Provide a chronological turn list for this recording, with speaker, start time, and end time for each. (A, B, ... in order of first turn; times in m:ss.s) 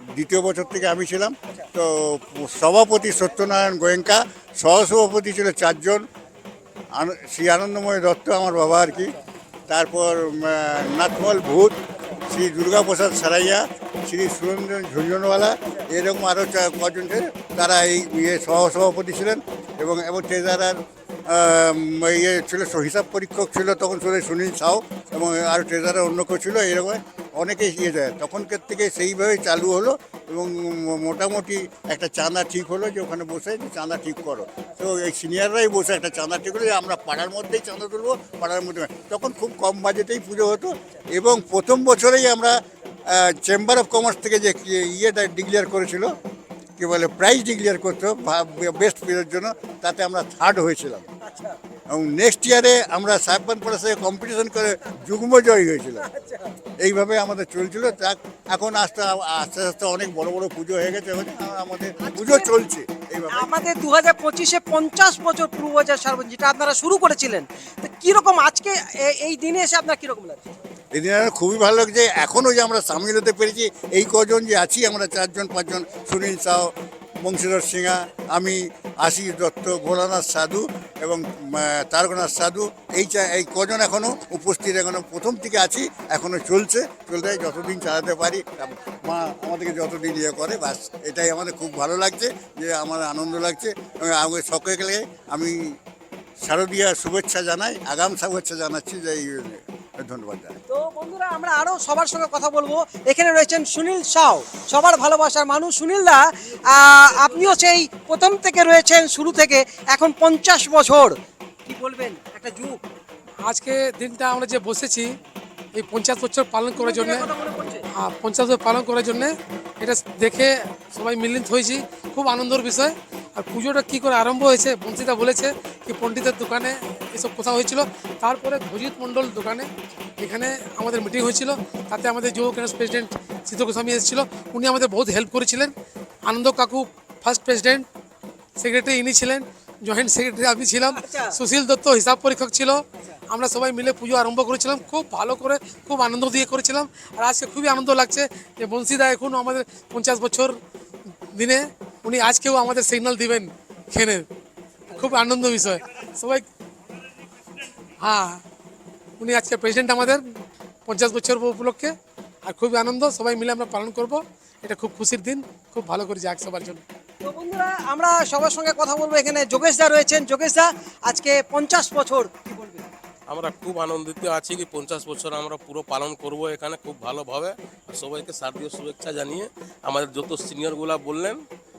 0:00.1-0:06.0 A
0:07.0-0:09.1 A
0:09.7-0:11.8 A
0:12.3-0:42.6 A
0:43.1-0:46.1 A
0:46.8-0:51.1 A
0:51.9-0:56.1 A
0:56.8-1:03.5 A
1:02.0-1:02.5 B
1:03.3-1:10.5 B
1:10.9-1:16.7 A
1:17.2-1:35.5 A
1:36.4-1:40.6 A
1:40.7-1:52.8 B
1:53.4-1:55.2 C
1:55.8-1:57.3 C
1:56.8-1:57.8 B
1:58.0-2:15.7 C
2:16.2-2:17.9 C
2:18.6-2:30.6 C
2:20.9-2:21.4 B
2:31.3-2:34.3 C
2:34.9-2:36.5 C
2:38.0-2:38.4 C
2:39.2-2:41.9 C
2:42.4-2:46.8 C
2:47.2-2:52.9 B
2:53.3-3:01.4 D